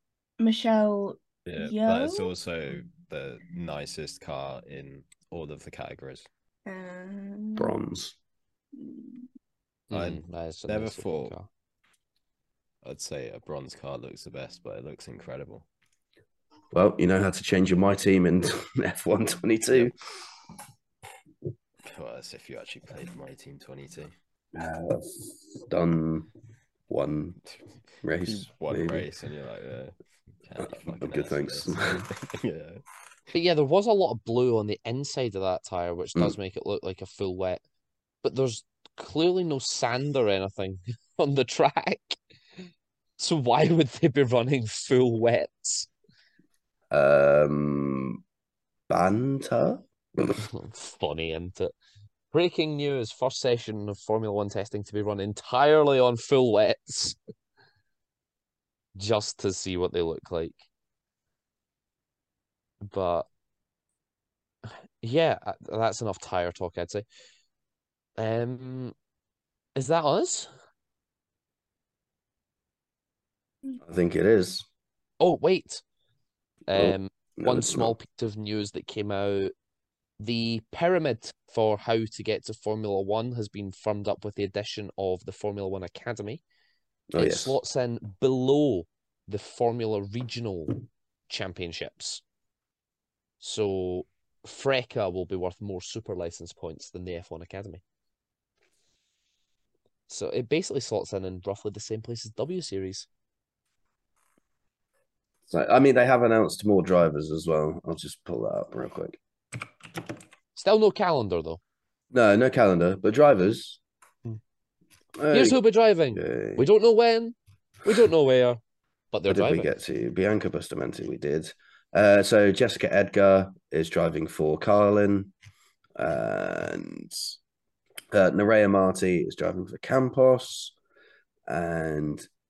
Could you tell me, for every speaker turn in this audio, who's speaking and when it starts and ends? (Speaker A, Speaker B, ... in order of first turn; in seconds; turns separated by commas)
Speaker A: 0.4-2.3, Speaker B: 1.4-6.3, Speaker A: 6.7-7.7, Speaker C: 7.6-8.2, Speaker A: 8.8-9.2, Speaker D: 9.9-11.5, Speaker B: 9.9-11.3, Speaker B: 12.8-15.7, Speaker C: 16.7-19.9, Speaker B: 21.8-24.1, Speaker C: 24.5-26.3, Speaker C: 26.9-27.4, Speaker C: 28.0-29.1, Speaker B: 28.2-32.8, Speaker C: 30.6-32.0, Speaker D: 33.3-37.6, Speaker D: 38.2-42.2, Speaker D: 43.2-45.9, Speaker C: 46.9-48.2, Speaker C: 48.9-50.3, Speaker D: 50.4-51.7, Speaker D: 52.3-57.2, Speaker D: 59.0-60.6, Speaker D: 62.8-63.3, Speaker D: 65.0-67.0, Speaker D: 68.2-68.9, Speaker D: 69.7-70.5, Speaker C: 73.8-74.6, Speaker D: 75.2-75.8, Speaker D: 76.7-79.5, Speaker C: 76.7-77.9, Speaker D: 80.2-86.4, Speaker C: 87.1-87.5, Speaker D: 87.2-92.2, Speaker D: 93.4-97.8, Speaker D: 100.1-103.1, Speaker C: 105.5-109.2, Speaker D: 110.5-111.6, Speaker C: 112.1-113.8, Speaker C: 115.2-115.6, Speaker D: 115.3-118.6, Speaker C: 116.1-116.7, Speaker D: 119.1-119.7, Speaker C: 119.3-125.3, Speaker C: 126.0-127.4, Speaker C: 128.1-130.7, Speaker C: 131.5-132.2